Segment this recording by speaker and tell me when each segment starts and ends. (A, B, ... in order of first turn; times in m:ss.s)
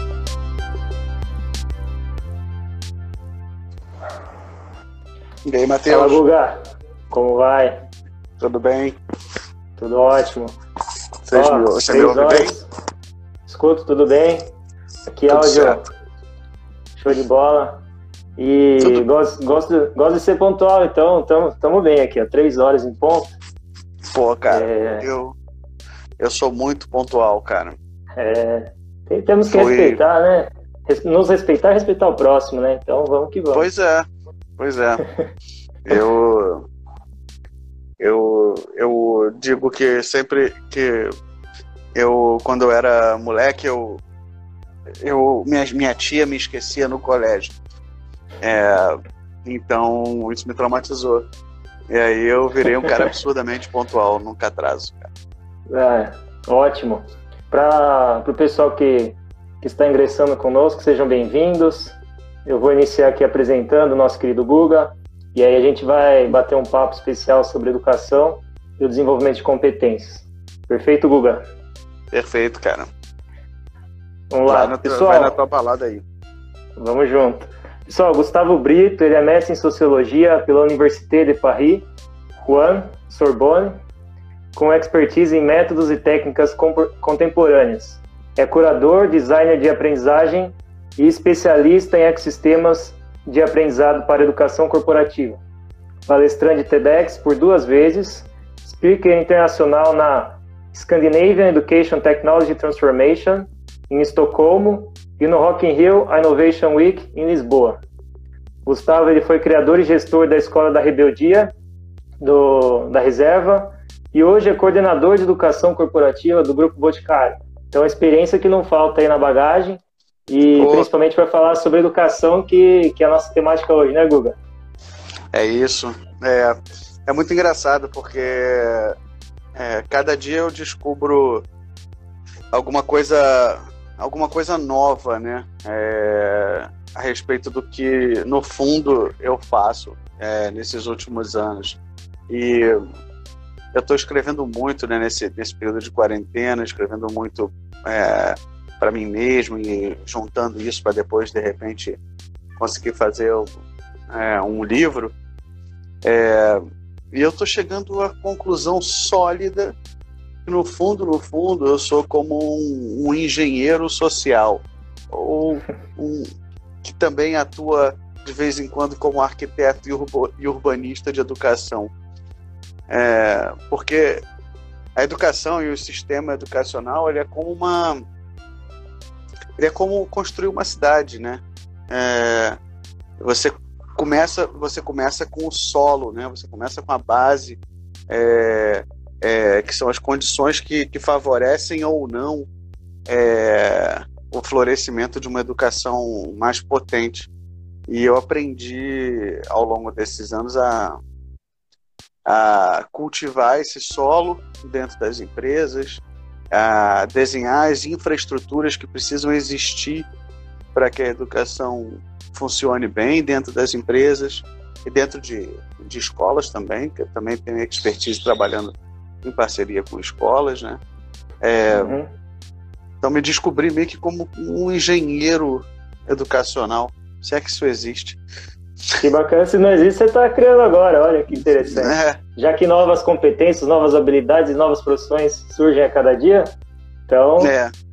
0:05.4-0:06.2 A
0:05.9-0:06.5 B
0:07.1-0:07.8 B
0:08.4-0:09.0 A
0:09.8-0:10.5 B
0:11.3-0:12.6 A
0:11.3-0:12.6 B
0:13.5-0:14.5 B
0:15.1-0:15.8 B
0:15.3-0:15.8 A
0:17.0-0:17.8 B
0:18.4-0:23.3 B
0:18.8-0:19.0 A
0:24.0-0:25.4 A
0:24.5-0:25.0 B
0:26.2-0:27.8 A
0:28.2-0:33.7 B
0:29.4-0:30.0 A
0:33.5-0:35.0 A
0:35.8-0:36.6 A
0:38.0-0:41.1 A
0:41.9-0:44.0 A
0:45.0-0:47.6 A
0:48.4-0:51.2 A
0:51.9-0:55.1 A
0:55.7-1:11.4 B
1:12.1-1:12.9 A
1:14.3-1:15.3 B
1:14.5-1:16.0 A
1:16.8-1:21.9 B
1:22.4-1:23.8 B
1:24.5-1:35.4 B
1:36.1-1:47.8 B
1:48.6-1:51.5 B
1:52.2-2:04.4 B
2:00.6-2:00.9 A
2:05.3-2:09.0 A
2:09.6-2:11.4 A
2:12.5-2:22.9 A
2:23.7-2:32.0 A
2:32.6-2:33.5 A
2:34.1-2:35.1 A
2:36.0-2:39.7 A
2:40.4-2:46.3 A
2:46.8-2:51.9 A
2:52.9-2:54.2 A
2:55.0-2:58.0 A
2:59.6-3:02.6 A
3:03.2-3:12.5 A
3:13.1-3:17.3 A
3:17.9-3:21.0 A
3:22.2-3:30.1 A
3:30.7-3:40.8 A
3:41.4-3:41.9 A
3:41.7-3:42.1 B
3:43.0-3:48.2 A
3:49.0-3:56.5 B
3:51.7-3:52.2 A
3:57.1-3:57.5 B
3:57.4-3:57.7 A